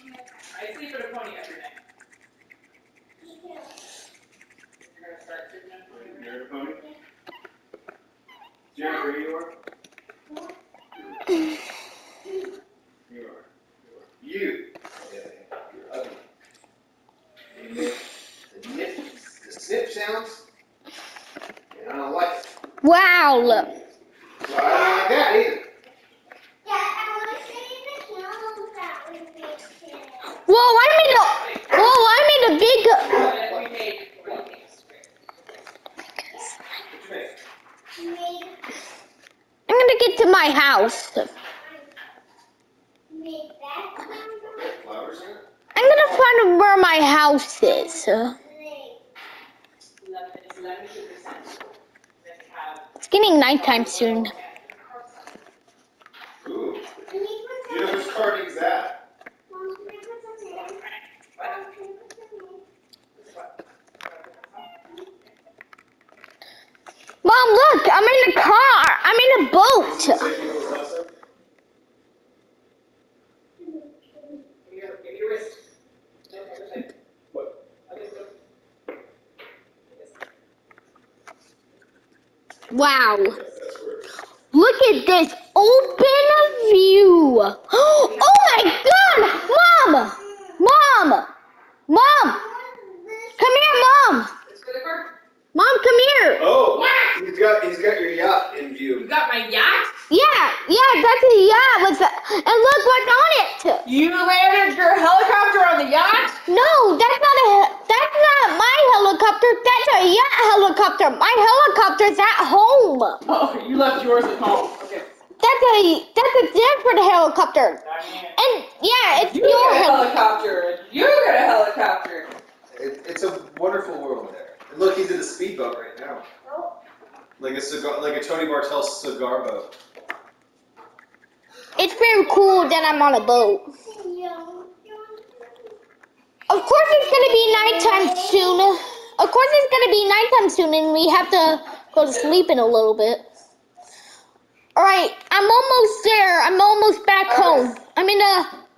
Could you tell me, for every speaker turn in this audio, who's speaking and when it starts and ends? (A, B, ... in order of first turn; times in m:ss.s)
0:00.4-0:01.8 A
0:03.2-0:03.9 B
0:04.8-0:06.3 A
0:05.9-0:06.8 C
0:06.6-0:07.0 B
0:08.7-0:09.5 C
0:08.8-0:09.1 B
0:10.3-0:10.5 B
0:13.1-0:16.2 C
0:17.5-0:20.4 C
0:21.7-0:22.5 C
0:22.8-0:23.8 D
0:24.4-0:25.6 C
0:26.6-0:30.3 B
0:30.5-0:33.3 D
0:33.0-0:35.1 A
0:36.9-0:37.4 C
0:38.0-0:38.6 B
0:39.7-0:41.3 D
0:41.6-0:41.9 B
0:43.1-0:44.8 B
0:44.6-0:45.4 C
0:45.7-0:48.4 D
0:47.6-0:49.0 B
0:50.0-0:52.9 A
0:53.0-0:54.3 D
0:53.5-0:55.4 A
0:56.4-0:56.9 C
0:57.1-0:58.2 B
0:57.7-0:59.0 C
0:59.5-1:00.9 B
1:01.4-1:02.6 B
1:03.2-1:04.7 A
1:07.2-1:10.2 D
1:09.8-1:11.1 C
1:13.6-1:14.4 B
1:14.6-1:15.6 A
1:16.3-1:16.9 A
1:17.9-1:18.3 A
1:22.7-1:23.4 D
1:23.3-1:24.0 C
1:24.5-1:31.3 D
1:31.9-1:32.4 D
1:32.0-1:33.5 B
1:33.4-1:34.3 D
1:34.5-1:35.1 A
1:35.5-1:36.4 D
1:36.4-1:39.1 C
1:36.7-1:37.1 A
1:39.0-1:39.9 A
1:40.1-1:43.8 D
1:43.8-1:46.4 A
1:46.5-1:53.2 D
1:53.3-1:55.1 A
1:55.4-1:57.8 D
1:57.8-1:58.4 A
1:58.4-2:00.1 D
1:59.2-2:02.3 A
2:02.7-2:06.3 C
2:06.4-2:06.8 B
2:07.4-2:09.8 C
2:11.8-2:13.7 D
2:12.3-2:15.7 B
2:16.5-2:23.3 D
2:16.5-2:19.0 B
2:24.8-2:28.5 D
2:27.3-2:27.7 A